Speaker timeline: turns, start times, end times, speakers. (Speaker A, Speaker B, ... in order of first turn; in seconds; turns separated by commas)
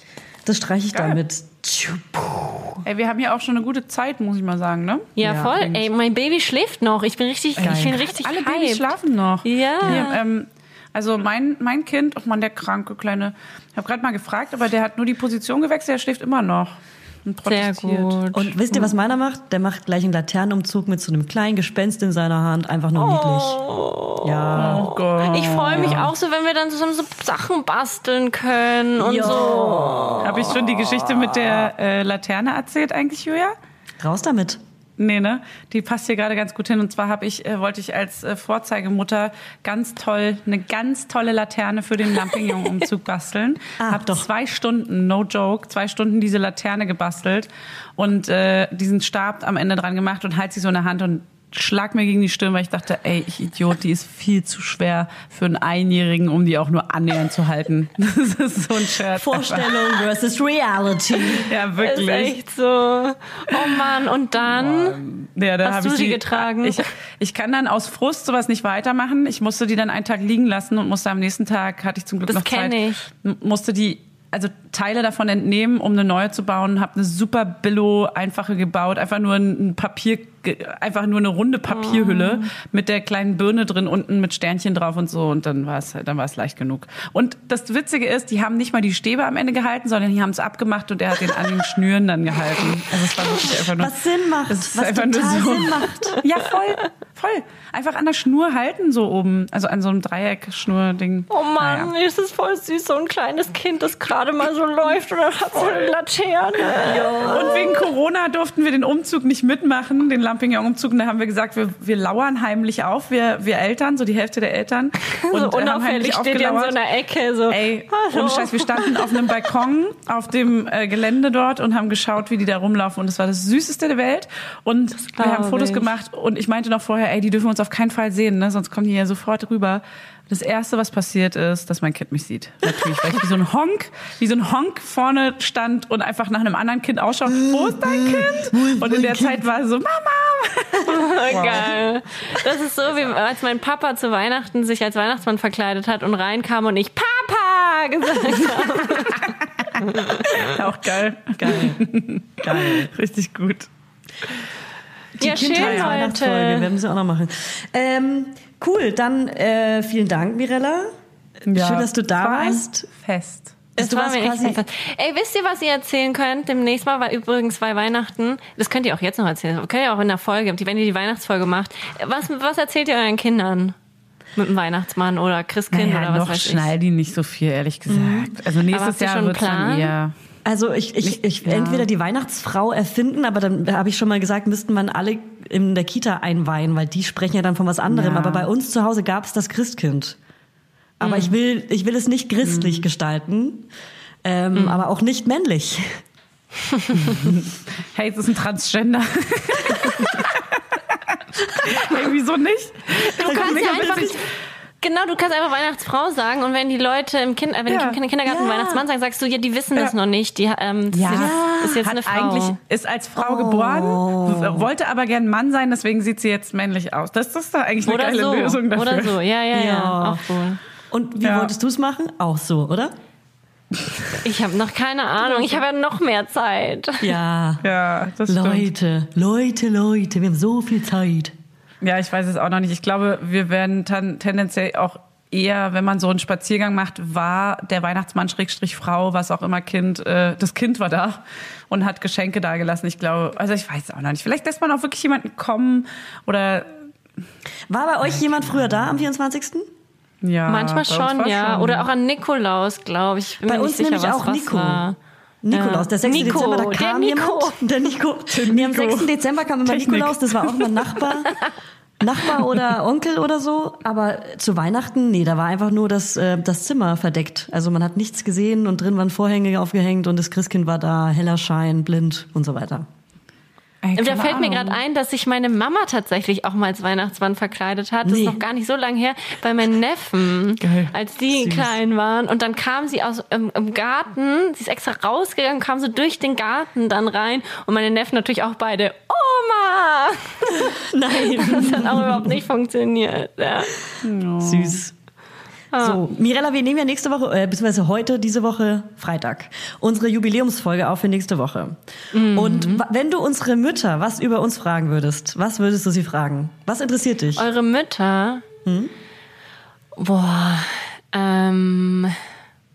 Speaker A: 0.5-2.8, Speaker B: 0.9-1.2, Speaker B: 2.8-5.8, Speaker C: 5.2-8.9, Speaker A: 5.2-5.6, Speaker B: 7.6-18.2, Speaker A: 7.6-8.0, Speaker C: 9.4-10.2, Speaker C: 17.4-18.9, Speaker A: 18.3-23.6, Speaker C: 22.9-30.5, Speaker A: 24.2-24.9, Speaker B: 24.6-26.1, Speaker A: 25.7-26.1, Speaker A: 29.0-31.6, Speaker B: 30.2-33.5, Speaker A: 34.0-34.6, Speaker B: 35.0-59.8, Speaker C: 42.4-42.6, Speaker A: 43.8-44.3, Speaker A: 59.2-62.2, Speaker B: 61.5-62.4, Speaker C: 61.8-65.0, Speaker B: 64.4-94.0, Speaker C: 65.6-66.8, Speaker C: 72.3-73.0, Speaker C: 81.7-82.5, Speaker A: 93.8-96.2, Speaker B: 94.5-101.9, Speaker C: 101.3-107.7, Speaker A: 106.9-107.6, Speaker B: 107.2-116.8, Speaker C: 115.1-119.3, Speaker B: 117.5-141.8, Speaker C: 125.1-125.9, Speaker A: 137.3-139.4, Speaker C: 140.9-149.3, Speaker A: 141.3-141.7, Speaker C: 149.8-150.5, Speaker B: 150.3-153.7, Speaker A: 151.4-151.9, Speaker A: 152.4-152.9, Speaker A: 155.2-160.9, Speaker C: 155.2-156.7, Speaker B: 155.6-156.0, Speaker B: 161.5-163.6, Speaker A: 161.5-162.9, Speaker A: 163.8-164.6, Speaker C: 163.8-173.8, Speaker C: 174.4-176.7, Speaker B: 175.7-180.1, Speaker A: 177.9-178.3, Speaker C: 178.7-179.9, Speaker A: 180.4-190.2, Speaker B: 181.0-181.9, Speaker B: 187.9-188.5, Speaker A: 191.0-193.7, Speaker C: 191.0-191.3, Speaker B: 192.4-192.9, Speaker A: 194.2-196.0, Speaker C: 194.6-194.8, Speaker B: 197.1-204.0, Speaker A: 201.6-202.0, Speaker C: 202.9-204.2, Speaker A: 203.2-204.2, Speaker C: 204.8-212.6, Speaker B: 207.7-208.0, Speaker A: 208.3-208.8, Speaker B: 210.9-219.2, Speaker A: 211.1-211.8, Speaker A: 213.2-214.7, Speaker C: 217.8-220.6, Speaker A: 219.5-220.2, Speaker A: 220.9-222.9, Speaker B: 221.2-221.5, Speaker C: 224.2-227.1, Speaker A: 227.0-227.6, Speaker B: 227.6-228.7, Speaker A: 228.3-231.3, Speaker B: 231.8-246.9, Speaker A: 247.7-249.7, Speaker B: 250.2-251.9, Speaker C: 250.5-254.9, Speaker A: 253.4-254.9, Speaker A: 255.4-261.3, Speaker C: 255.5-257.6, Speaker B: 258.3-259.1, Speaker B: 259.6-260.9, Speaker A: 262.0-272.9, Speaker B: 273.8-274.8, Speaker C: 273.9-293.7, Speaker A: 278.1-278.4, Speaker B: 280.6-280.9, Speaker A: 281.3-281.7, Speaker A: 290.5-292.3, Speaker B: 294.0-294.8, Speaker A: 294.4-294.9, Speaker C: 295.7-296.0, Speaker A: 295.8-301.8, Speaker C: 302.1-302.9, Speaker A: 302.3-307.4, Speaker C: 307.4-308.4, Speaker A: 308.6-308.9, Speaker C: 309.9-312.2